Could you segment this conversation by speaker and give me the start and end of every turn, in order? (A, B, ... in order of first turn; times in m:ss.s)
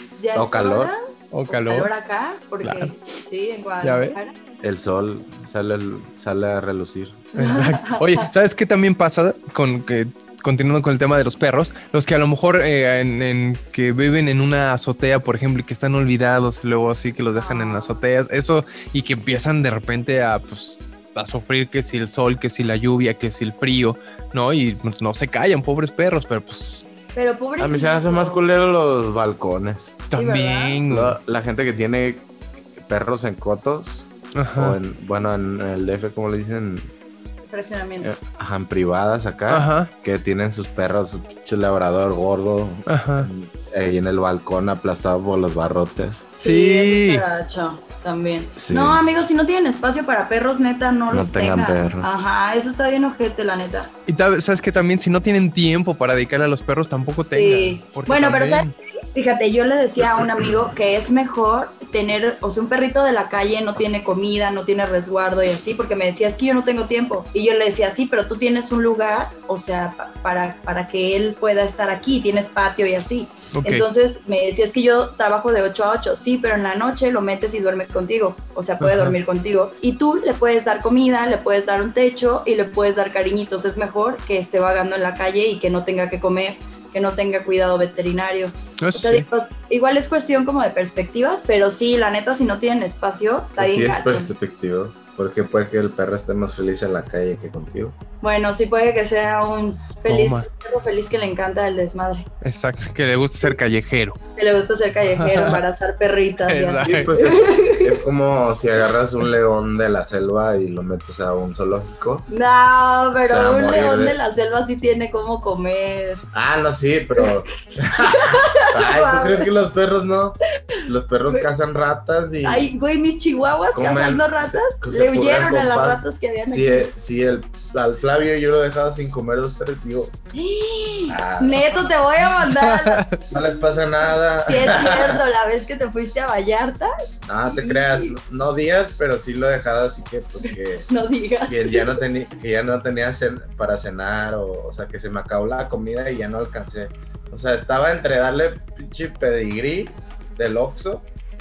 0:00.2-0:04.4 A
0:00.3-0:00.9 B
0:01.3-0:01.9 C
0:02.6-0:02.9 C
0:03.8-0:04.2 C
0:04.6-0:07.3 B
0:07.4-0:08.3 A
0:07.4-0:26.8 C
0:17.4-0:18.0 A
0:27.2-0:28.4 A
0:27.6-0:30.0 B
0:30.1-0:31.2 C
0:30.1-0:30.8 A
0:30.9-0:36.9 B
0:34.4-0:34.8 C
0:37.5-0:38.2 A
0:38.0-0:46.3 B
0:39.5-0:39.9 C
0:42.9-0:43.3 C
0:46.4-0:53.9 A
0:46.4-0:47.2 C
0:48.6-0:49.0 B
0:51.1-0:52.1 B
0:54.1-0:58.7 C
0:57.3-1:34.3 A
1:13.5-1:13.8 C
1:18.8-1:19.2 C
1:28.8-1:29.3 C
1:33.6-1:38.0 B
1:38.2-1:42.3 A
1:40.1-1:40.5 C
1:42.4-1:44.2 C
1:44.4-1:48.0 A
1:45.1-1:45.6 C
1:46.5-1:47.1 C
1:46.8-1:52.3 B
1:52.3-1:56.2 A
1:53.2-1:54.2 B
1:56.3-2:02.7 B
1:58.0-1:59.5 A
2:02.4-2:06.9 A
2:03.7-2:10.2 B
2:10.3-2:13.2 A
2:11.1-2:11.9 B
2:12.4-2:13.2 C
2:13.3-2:15.2 B
2:14.4-2:16.9 A
2:17.2-2:20.9 B
2:17.5-2:18.2 A
2:20.9-2:22.0 A
2:21.5-2:31.1 B